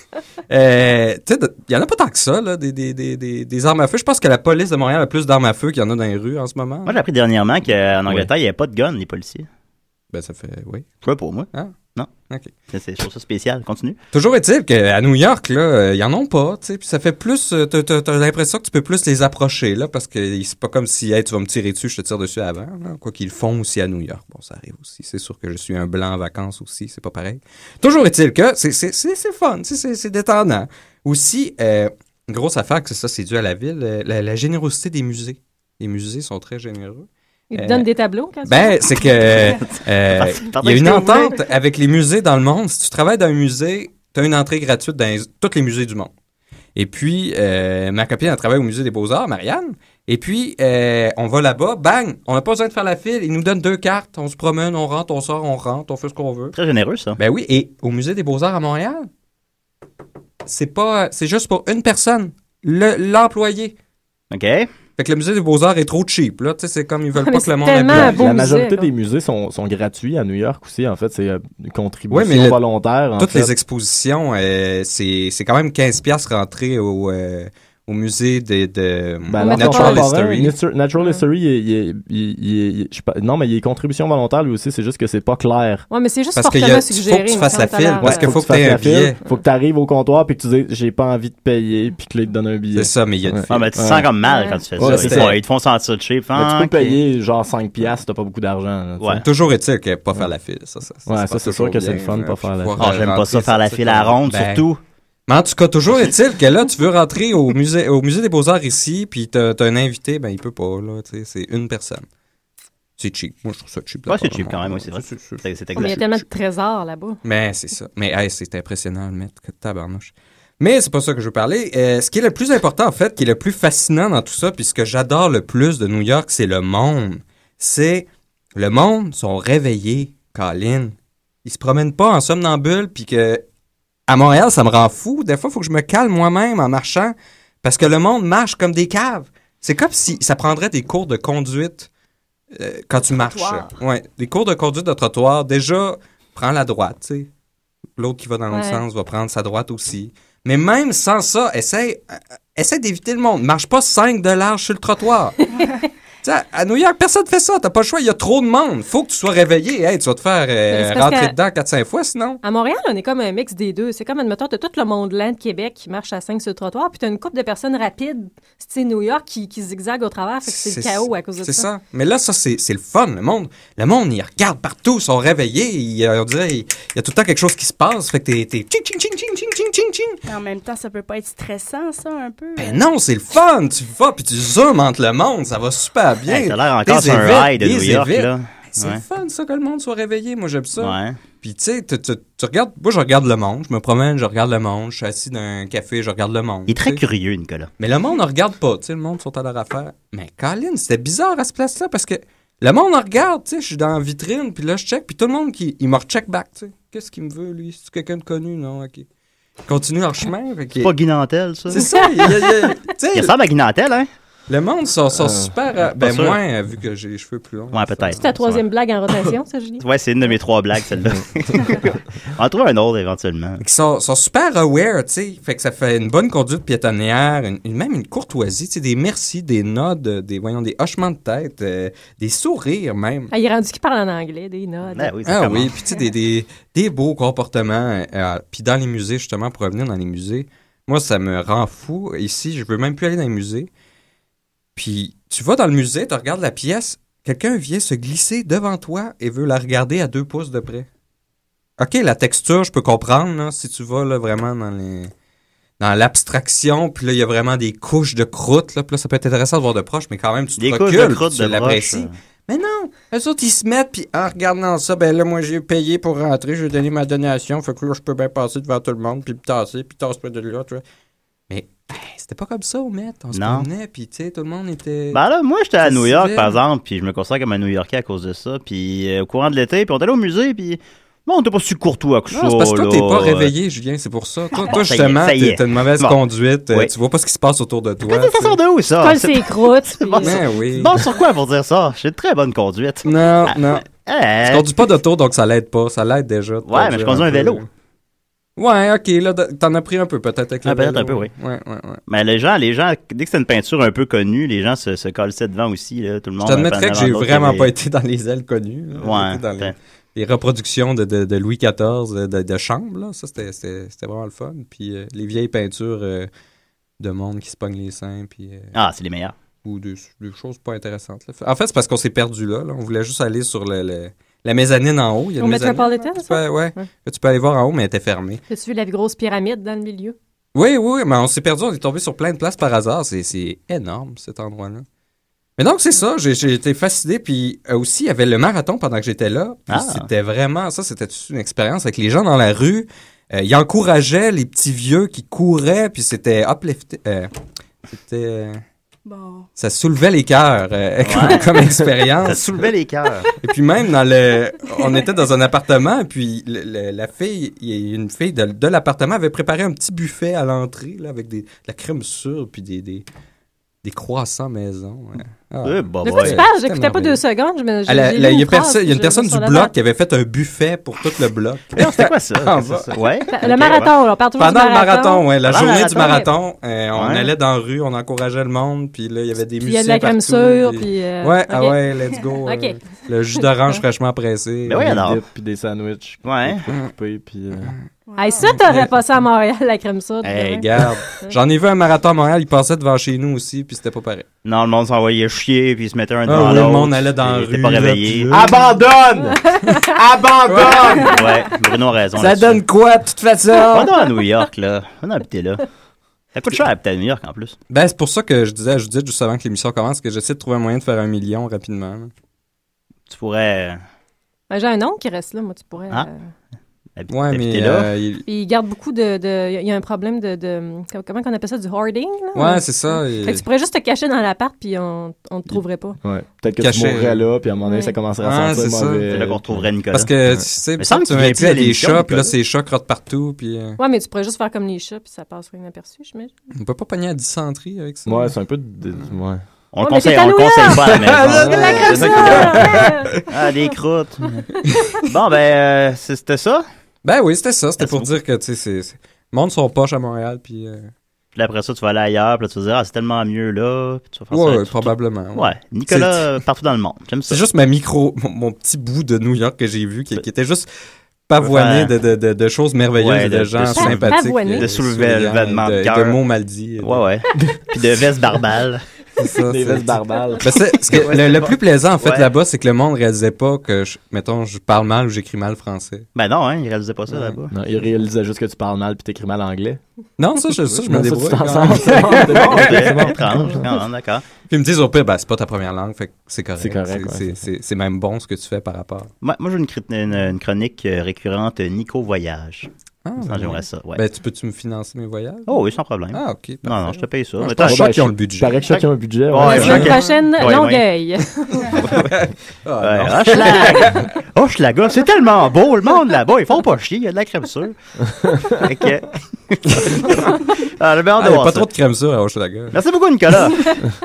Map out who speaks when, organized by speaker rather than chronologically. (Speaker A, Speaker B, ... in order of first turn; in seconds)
Speaker A: 0.5-7.0, 10.1-10.9, 14.1-37.9, 38.4-46.1, 46.8-56.5, 57.2-59.1, 60.4-63.7, 65.0-68.3, 72.1-72.6, 73.2-80.5, 86.3-89.2, 92.7-93.7, 94.8-95.4, 99.2-104.7, 105.3-112.0, 113.0-116.2, 117.2-133.4, 134.1-141.9, 142.5-147.3, 148.0-155.5, 156.2-162.4, 170.4-180.2, 182.6-197.0, 197.8-209.1, 209.7-210.9, 211.7-213.3, 214.5-218.2, 223.6-233.3, 235.2-243.7, 244.8-250.9, 251.8-255.1, 255.8-270.8, 271.5-275.2, 275.8-276.6, 282.3-288.6, 290.2-290.9, 293.0-293.9, 294.4-297.6, 298.6-302.0, 306.4-316.3, 317.0-318.7, 319.6-328.4, 330.5-334.8, 335.6-347.3, 347.9-348.6, 349.6-352.7, 353.4-363.0, 363.8-367.2, 367.9-373.2, 374.4-385.0, 388.4-388.9, 390.2-394.2, 396.2-398.7, 400.4-401.1, 402.1-403.9, 407.7-412.1, 417.1-418.2, 422.3-423.4, 426.6-427.3, 428.2-429.1, 429.9-433.8, 436.5-438.3, 441.0-442.9, 447.0-450.9, 454.3-456.3, 457.3-460.7, 461.3-467.0, 469.2-476.1, 477.1-477.4, 480.2-483.1, 484.5-489.1, 493.0-495.6, 496.1-498.7, 499.4-500.2, 501.6-504.1, 509.8-510.1, 511.2-512.8
Speaker B: 6.8-9.5, 11.0-12.1, 12.7-14.0, 40.1-41.4, 56.5-57.2, 64.3-64.7, 93.5-97.0, 102.8-104.8, 114.1-116.0, 186.2-189.0, 190.8-191.2, 196.7-197.7, 210.8-211.8, 213.1-214.1, 216.0-216.4, 217.7-218.6, 219.8-223.6, 234.9-235.7, 260.6-262.1, 273.3-273.7, 275.1-283.5, 284.7-286.2, 288.1-294.7, 296.6-297.6, 300.6-301.3, 302.1-307.7, 308.9-309.7, 318.7-319.3, 339.7-340.1, 351.0-351.5, 352.2-353.3, 365.6-366.4, 371.7-373.9, 375.4-376.2, 376.9-377.3, 384.6-385.2, 386.2-386.6, 394.4-398.3, 401.0-402.6, 403.7-405.6, 406.3-407.6, 413.1-413.8, 417.0-417.9, 429.1-430.1, 430.8-432.3, 439.7-442.7, 443.2-444.4, 445.0-446.6, 447.8-448.1, 451.3-457.4, 461.4-461.9, 463.0-466.2, 466.8-468.8, 471.0-472.3, 476.1-477.5, 482.1-484.2, 489.2-492.7, 493.2-494.0, 495.5-497.8, 498.7-500.8, 501.8-502.1, 502.8-507.8, 508.5-511.7, 512.7-513.8
Speaker C: 37.5-39.1, 67.1-68.9, 79.4-80.1, 85.9-88.4, 94.2-94.6, 115.8-117.2, 148.5-148.8, 160.7-161.3, 162.4-171.7, 211.8-212.7, 218.2-219.8, 233.3-235.1, 289.0-290.4, 325.4-326.8, 328.5-330.1, 366.0-369.7, 373.3-375.3, 375.8-376.3, 379.6-381.8, 382.4-382.8, 383.4-383.8, 388.2-391.4, 399.4-399.9, 414.5-416.1, 418.3-426.0, 427.6-427.9, 433.8-436.3, 439.8-443.1, 463.8-464.7, 499.4-501.7
Speaker D: 67.9-73.5, 79.3-85.8, 88.0-94.1, 94.8-95.4, 96.3-99.2, 101.1-102.8, 215.2-215.5, 384.7-387.7, 398.3-401.1, 425.5-429.7, 438.1-439.4, 441.5-441.8, 469.5-470.5, 477.5-479.8, 480.6-483.6, 486.6-487.4, 497.6-499.8
Speaker E: 143.1-143.7, 180.2-182.8, 349.1-349.5, 388.1-388.6